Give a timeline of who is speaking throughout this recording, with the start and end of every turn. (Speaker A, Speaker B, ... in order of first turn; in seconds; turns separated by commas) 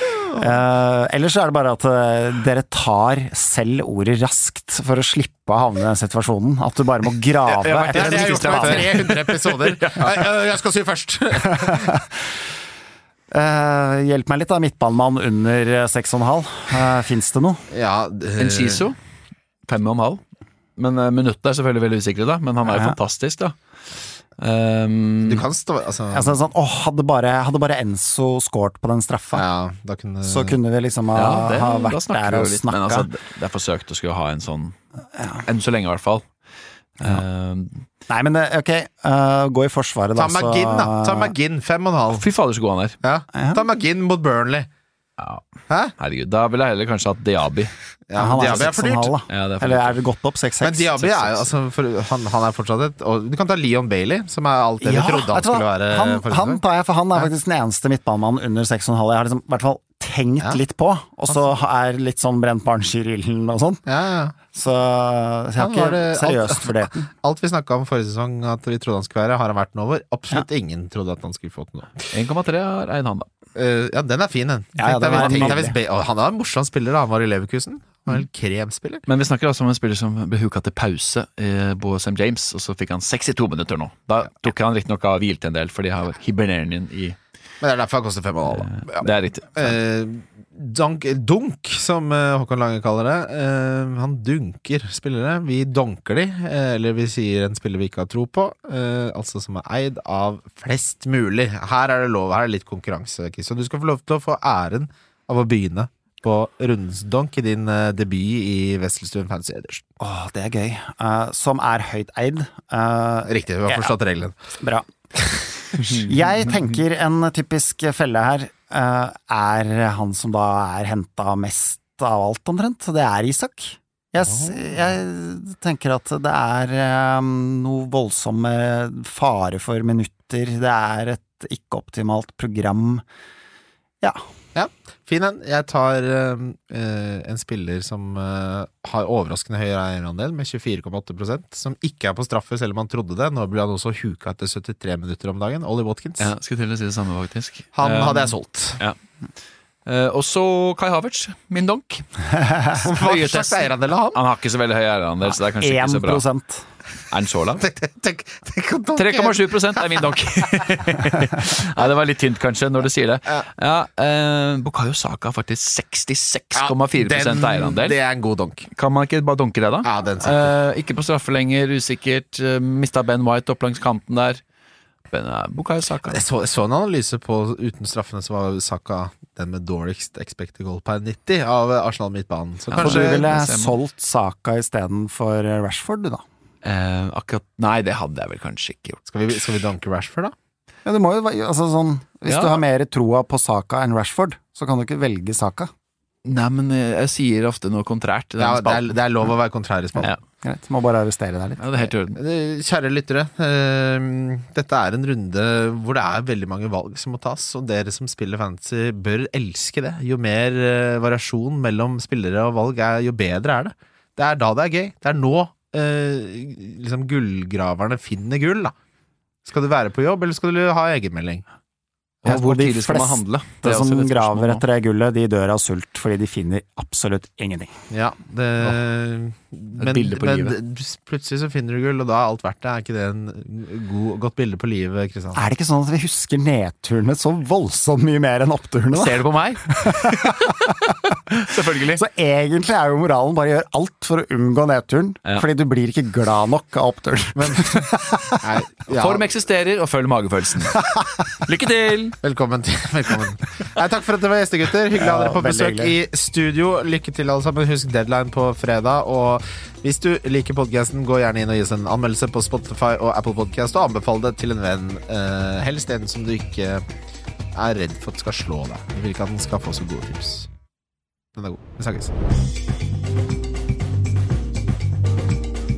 Speaker A: 0.1-0.5, Speaker B: 0.4-9.2, Speaker C: 7.5-10.1, Speaker A: 7.9-12.0, Speaker B: 11.5-12.1, Speaker B: 13.3-17.6, Speaker A: 17.7-18.8, Speaker C: 18.4-19.0, Speaker C: 19.6-20.2, Speaker C: 20.8-23.5, Speaker B: 22.7-22.9, Speaker C: 24.4-25.4, Speaker A: 25.2-26.4, Speaker B: 26.1-29.4, Speaker A: 29.3-30.6, Speaker B: 30.2-33.1, Speaker C: 31.1-34.8, Speaker C: 35.3-36.3, Speaker C: 37.0-37.9, Speaker B: 38.1-41.3, Speaker A: 40.1-42.2, Speaker C: 42.1-43.0, Speaker A: 43.0-44.7, Speaker B: 43.3-43.6, Speaker C: 45.2-45.4, Speaker A: 45.7-45.9, Speaker C: 46.0-47.7, Speaker A: 48.1-49.1, Speaker B: 48.1-51.5, Speaker C: 49.3-50.0, Speaker A: 50.6-56.6, Speaker B: 54.8-63.8, Speaker A: 63.9-64.3, Speaker B: 64.5-67.1, Speaker A: 65.6-72.1, Speaker C: 72.1-73.3, Speaker A: 73.5-79.0, Speaker B: 74.8-75.8, Speaker C: 75.1-75.6, Speaker C: 79.1-87.2, Speaker A: 87.6-109.8, Speaker C: 88.5-89.7, Speaker B: 110.0-113.9, Speaker A: 113.2-114.3, Speaker B: 114.6-114.9, Speaker A: 115.2-116.0, Speaker B: 115.8-133.0, Speaker A: 134.5-146.3, Speaker C: 146.2-149.0, Speaker A: 147.7-148.8, Speaker C: 149.8-156.2, Speaker B: 152.3-152.7, Speaker A: 152.8-154.2, Speaker B: 155.6-156.7, Speaker C: 157.1-157.6, Speaker A: 157.6-159.8, Speaker C: 158.9-168.0, Speaker A: 166.5-168.7, Speaker C: 168.7-174.4, Speaker A: 169.8-170.5, Speaker C: 175.1-176.2, Speaker A: 176.1-183.3, Speaker C: 182.7-183.8, Speaker B: 182.8-186.2, Speaker C: 186.6-189.1, Speaker A: 189.1-190.3, Speaker B: 190.8-195.7, Speaker C: 192.3-192.6, Speaker C: 196.2-198.9, Speaker A: 198.4-200.1, Speaker B: 200.4-201.9, Speaker C: 201.6-202.2, Speaker A: 202.2-218.7, Speaker A: 219.4-221.4, Speaker C: 222.2-224.6, Speaker B: 222.2-227.8, Speaker A: 227.9-235.4, Speaker C: 229.8-230.5, Speaker B: 235.3-248.5, Speaker C: 238.9-242.0, Speaker A: 247.3-249.2, Speaker C: 248.9-252.2, Speaker A: 252.2-266.8, Speaker B: 254.9-255.9, Speaker A: 267.5-270.5, Speaker A: 271.4-272.1